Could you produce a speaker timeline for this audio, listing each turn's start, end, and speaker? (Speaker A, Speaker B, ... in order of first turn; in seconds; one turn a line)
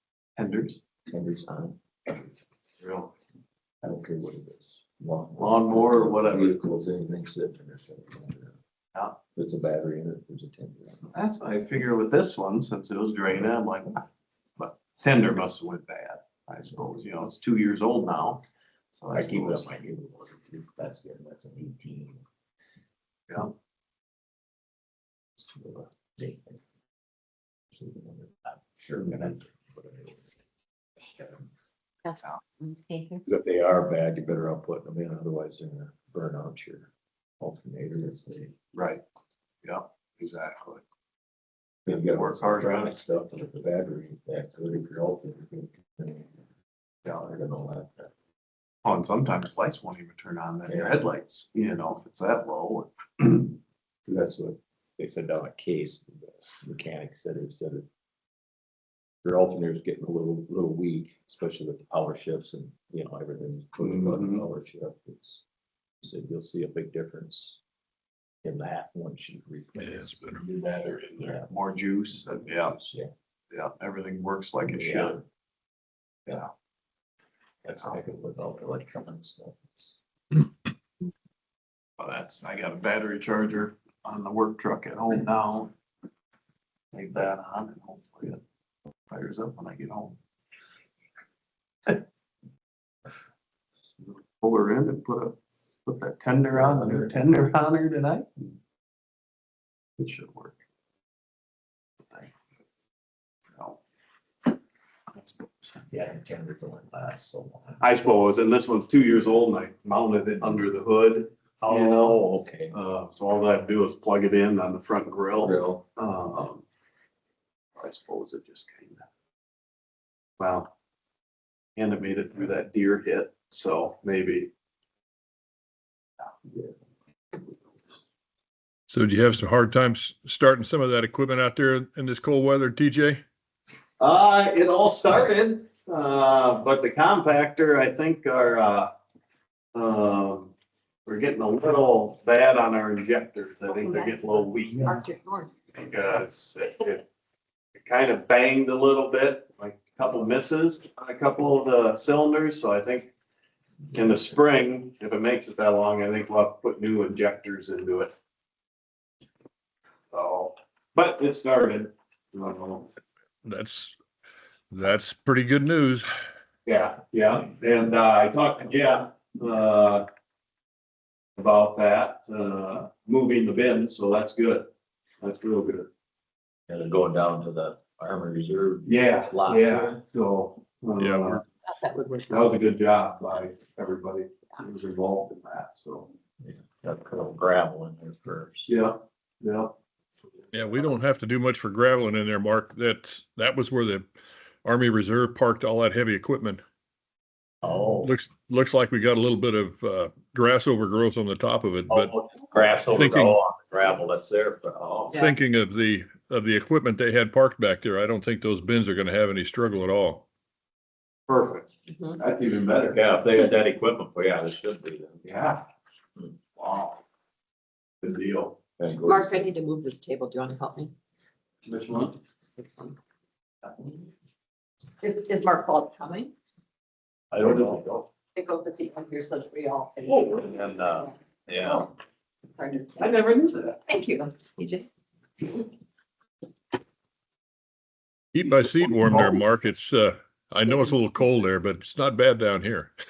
Speaker A: 0.4-0.8
Speaker B: 1.1-2.2
Speaker A: 2.8-3.1
Speaker B: 3.8-8.5
Speaker A: 5.3-6.6
Speaker B: 9.3-11.1
Speaker A: 11.1-14.0
Speaker A: 14.6-18.4
Speaker A: 18.9-19.7
Speaker B: 19.1-22.2
Speaker B: 25.4-26.6
Speaker B: 27.7-30.3
Speaker C: 32.0-33.2
Speaker B: 33.2-38.5
Speaker A: 38.7-39.0
Speaker A: 39.6-40.8
Speaker B: 41.9-46.3
Speaker A: 41.9-43.0
Speaker B: 47.1-48.1
Speaker A: 48.8-53.5
Speaker B: 50.7-50.9
Speaker B: 54.1-57.9
Speaker B: 59.2-65.4
Speaker A: 63.8-64.5
Speaker B: 66.0-67.6
Speaker B: 68.4-70.2
Speaker A: 69.8-72.8
Speaker B: 71.2-71.5
Speaker B: 72.4-73.1
Speaker A: 73.5-75.2
Speaker B: 74.7-75.2
Speaker B: 77.6-80.0
Speaker A: 82.0-85.7
Speaker A: 86.9-88.4
Speaker A: 89.1-90.2
Speaker A: 94.0-98.5
Speaker B: 96.5-97.1
Speaker A: 100.0-100.6
Speaker A: 103.5-103.8
Speaker A: 105.1-105.8
Speaker B: 105.9-107.8
Speaker A: 107.8-116.6
Speaker B: 111.6-112.8
Speaker B: 115.4-115.8
Speaker A: 117.8-119.1
Speaker A: 120.4-120.7
Speaker A: 121.8-124.5
Speaker D: 128.9-133.2
Speaker A: 134.0-138.9
Speaker A: 139.7-140.5
Speaker A: 141.1-144.9
Speaker C: 143.6-145.5
Speaker A: 145.7-147.0
Speaker A: 147.8-153.1
Speaker A: 153.9-158.1
Speaker A: 160.1-162.9
Speaker D: 163.4-164.0
Speaker D: 164.7-166.1
Speaker A: 166.7-170.1
Speaker A: 171.4-174.7
Speaker A: 175.2-175.9
Speaker B: 176.7-179.9
Speaker A: 178.8-181.4
Speaker D: 181.0-181.4
Speaker C: 181.7-182.6
Speaker A: 182.3-186.1
Speaker B: 186.4-188.7
Speaker A: 188.7-189.7
Speaker D: 190.5-194.1
Speaker D: 194.6-196.6
Speaker B: 197.6-198.1
Speaker D: 198.0-202.1
Speaker B: 201.9-205.1
Speaker D: 202.9-203.4
Speaker D: 205.1-210.2
Speaker A: 211.3-213.0
Speaker C: 211.9-212.2
Speaker B: 212.9-215.2
Speaker A: 215.2-215.6
Speaker A: 216.6-217.0
Speaker A: 218.0-218.6
Speaker B: 218.8-219.5
Speaker C: 219.0-220.9
Speaker A: 221.6-222.2
Speaker C: 222.6-223.0
Speaker C: 225.0-226.3
Speaker A: 227.3-227.9
Speaker B: 227.4-228.0
Speaker C: 228.3-231.2
Speaker A: 230.1-230.5
Speaker B: 230.4-231.8
Speaker C: 232.6-233.2
Speaker A: 233.0-233.8
Speaker C: 233.8-234.9
Speaker D: 238.3-242.9